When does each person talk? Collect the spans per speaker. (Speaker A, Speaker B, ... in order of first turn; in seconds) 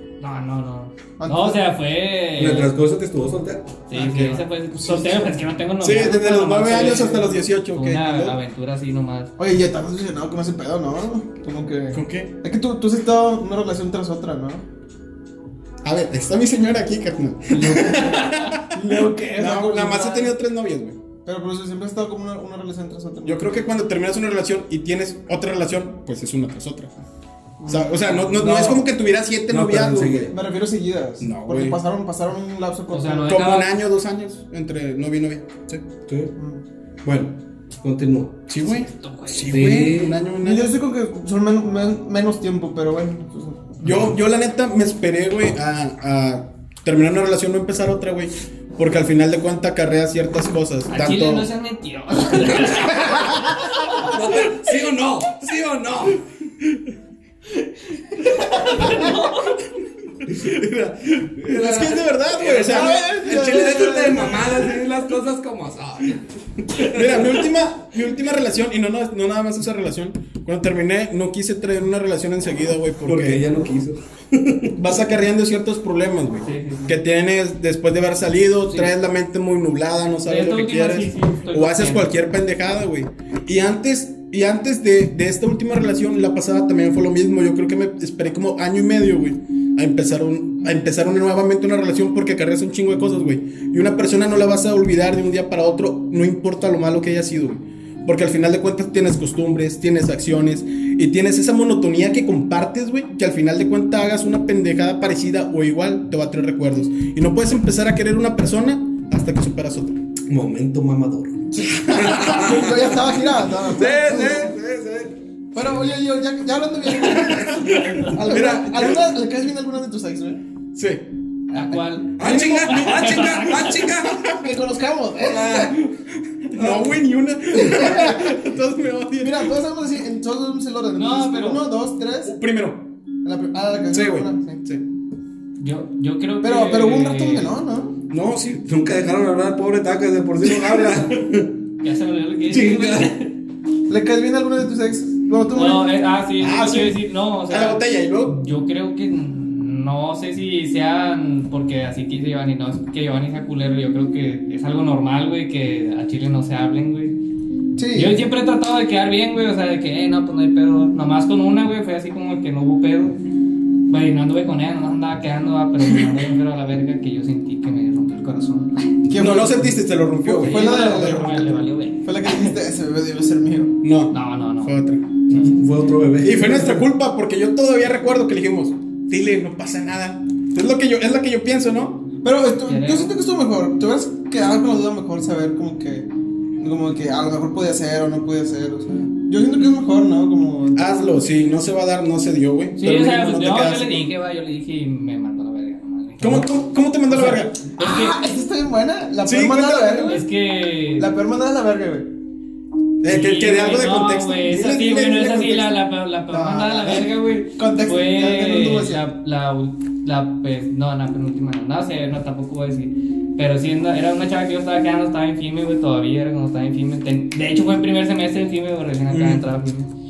Speaker A: 0.2-2.7, 3.9-9.3, 17.5-18.6, 32.9-33.7, 38.7-39.7, 50.9-54.2, 57.6-59.6, 76.4-77.0, 80.2-82.1, 117.5-118.2, 121.5-123.9, 130.9-131.6, 135.6-137.6, 141.8-143.3, 145.5-157.2, 157.9-163.2, 163.9-168.9, 170.4-172.5, 174.1-174.8, 175.3-175.6, 182.7-183.1, 192.8-198.2, 200.0-201.1, 203.1-219.9
Speaker B: 1.2-1.6, 6.7-7.2, 9.4-14.6, 17.6-20.3, 21.2-23.5, 27.6-28.9, 30.3-33.4, 36.4-36.6, 40.4-43.8, 62.6-64.7, 111.5-114.5, 115.5-120.4, 122.2-122.9, 124.1-125.8, 127.5-128.3, 129.2-132.3, 133.2-134.6, 136.4-137.9, 143.9-145.8, 157.8-158.2, 169.1-173.8, 182.2-186.1, 186.6-191.0, 197.8-200.3, 201.0-202.1, 206.8-209.0
Speaker C: 2.4-3.6, 29.5-30.3, 35.7-36.3, 37.0-38.4, 39.5-40.2, 52.4-53.1, 54.0-56.2, 60.4-67.4, 73.0-74.8, 110.3-115.1, 118.1-119.2, 122.2-124.3, 125.2-125.9, 126.5-126.9, 138.3-141.5, 142.5-143.1, 175.3-176.8
Speaker D: 3.9-5.3, 5.8-8.3, 11.9-12.3, 15.8-20.9, 23.2-26.9, 27.7-30.3, 31.2-31.8, 33.2-35.6, 38.5-40.7, 43.8-51.5, 53.1-53.7, 58.8-59.1, 60.3-64.0, 66.8-73.4, 74.7-110.0, 111.7-112.2, 120.7-121.0, 122.2-122.6, 124.0-124.3, 126.5-129.6, 132.2-132.8, 133.9-134.8, 138.1-138.5, 146.4-148.3, 169.2-171.2, 173.8-175.0, 176.2-182.0, 190.8-194.1, 196.2-197.5, 199.2-200.2, 203.0-207.1, 219.1-219.4